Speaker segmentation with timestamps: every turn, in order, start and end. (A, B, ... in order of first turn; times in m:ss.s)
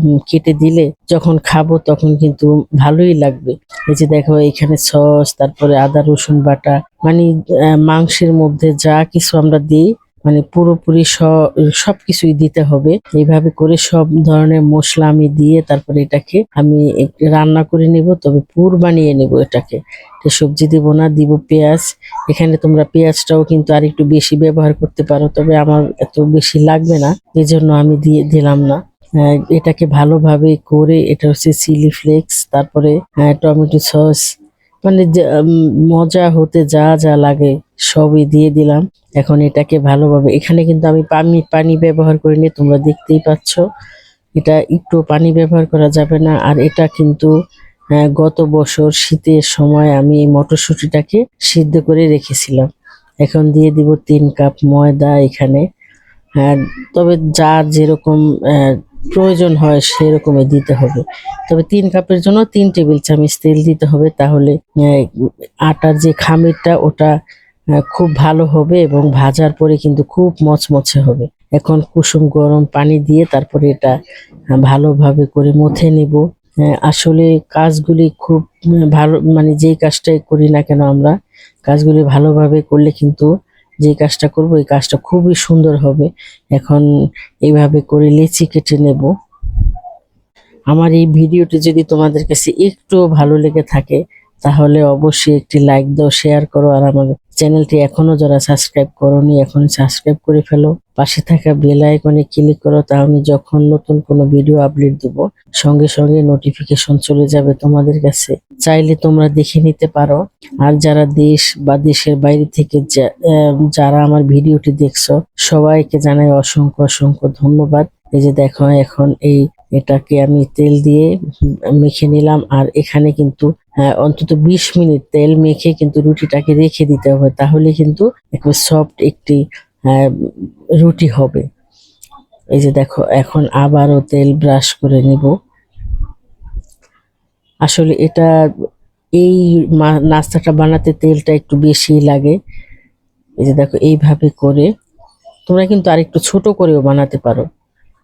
0:00.3-0:07.3 A
0:07.9-0:11.3 A
0:11.8-0:28.8 A
0:29.5-0:34.2 A
0:35.9-0:43.6 A
0:44.4-0:47.3 A
0:48.2-0:52.7 A
0:53.2-0:55.6 A
0:56.4-1:05.0 A
1:05.7-1:07.1 A
1:07.9-1:13.9 A
1:14.6-1:18.4 A
1:19.0-1:21.1 A
1:21.7-1:23.3 A
1:23.8-1:26.8 A
1:27.5-1:29.1 A
1:30.7-1:53.0 A
1:53.8-2:01.1 A
2:01.8-2:09.4 A
2:10.8-2:11.4 A
2:12.6-2:15.3 A
2:17.7-2:18.3 A
2:19.2-2:22.4 A
2:23.4-2:24.7 A
2:25.5-2:27.5 A